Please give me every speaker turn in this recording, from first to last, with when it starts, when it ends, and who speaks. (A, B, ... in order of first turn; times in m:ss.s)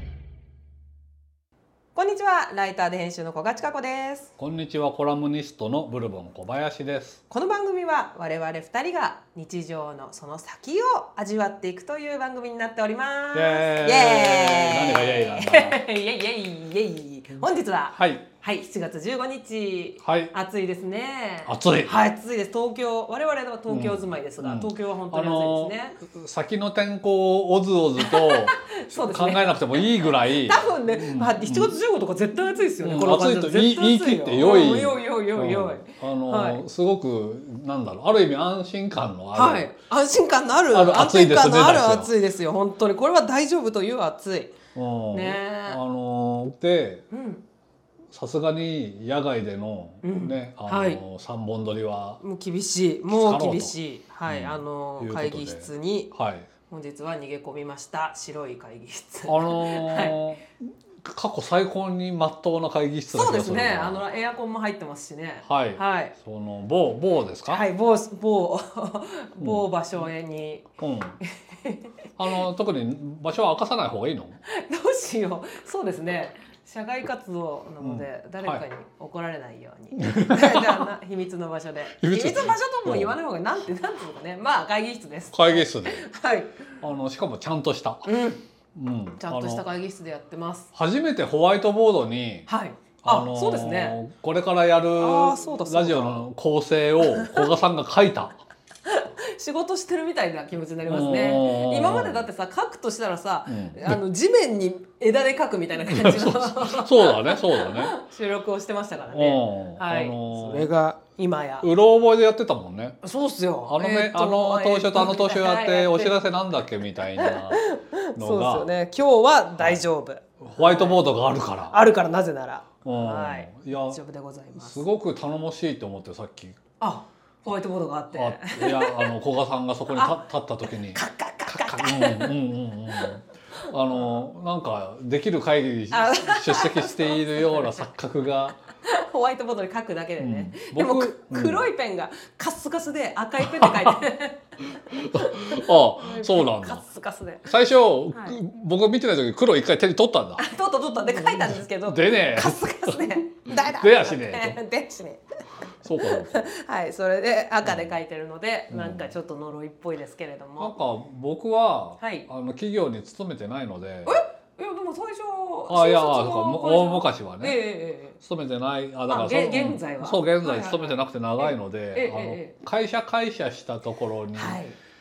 0:01.9-0:04.3 A
0:04.4-0:07.2 B
0:07.3-0:26.0 A
0:13.3-0:15.8 B
0:17.9-0:18.2 B
0:20.0-0:20.3 B
0:21.4-0:22.0 B
0:23.7-0:31.8 B
0:28.0-0:29.5 A
0:30.4-0:36.6 A
0:32.8-0:39.7 B
0:39.3-0:44.6 A
0:40.7-0:42.1 B
0:44.7-0:47.0 B
0:45.1-0:45.8 A
0:47.1-0:47.4 A
0:48.1-0:52.2 B
0:50.0-0:51.0 A
0:52.2-0:56.1 A
0:53.1-0:53.7 B
0:54.3-0:56.5 B
0:56.7-1:00.2 A
0:59.3-1:00.4 B
1:01.0-1:04.0 B
1:03.1-1:06.1 A
1:05.4-1:07.6 B
1:07.5-1:10.7 A
1:09.4-1:09.6 B
1:10.8-1:11.2 B
1:11.2-1:11.9 A
1:12.2-1:14.4 B
1:14.5-1:26.6 A
1:17.8-1:18.6 B
1:20.0-1:20.9 B
1:22.0-1:23.2 B
1:25.3-1:26.0 B
1:26.8-1:28.1 B
1:28.0-1:28.4 A
1:28.7-1:29.6 B
1:29.2-1:30.7 A
1:30.7-1:32.5 B
1:32.5-1:34.0 A
1:33.0-1:38.4 B
1:35.0-1:36.2 A
1:37.0-1:37.5 A
1:38.8-1:51.7 A
1:40.9-1:42.3 B
1:43.5-1:44.0 B
1:45.9-1:47.9 B
1:49.1-1:50.7 B
1:51.6-1:53.0 B
1:53.0-1:56.1 A
1:53.6-1:57.6 B
1:57.2-2:01.0 A
1:58.2-1:58.7 B
2:00.4-2:01.8 B
2:01.7-2:04.8 A
2:02.8-2:04.0 B
2:04.6-2:06.6 B
2:06.8-2:09.1 A
2:08.1-2:18.6 B
2:09.9-2:12.3 A
2:15.9-2:17.9 A
2:18.8-2:27.5 A
2:20.2-2:21.6 B
2:23.4-2:24.0 B
2:24.9-2:26.8 B
2:27.4-2:30.4 B
2:28.1-2:28.4 A
2:30.4-2:35.2 A
2:31.2-2:34.6 B
2:35.8-2:36.4 B
2:36.0-2:40.7 A
2:37.6-2:37.9 B
2:38.7-2:39.1 B
2:40.6-2:44.2 B
2:42.0-2:42.3 A
2:44.0-2:48.2 A
2:45.7-2:47.6 B
2:48.2-2:54.6 B
2:49.1-2:52.5 A
2:54.3-2:54.8 A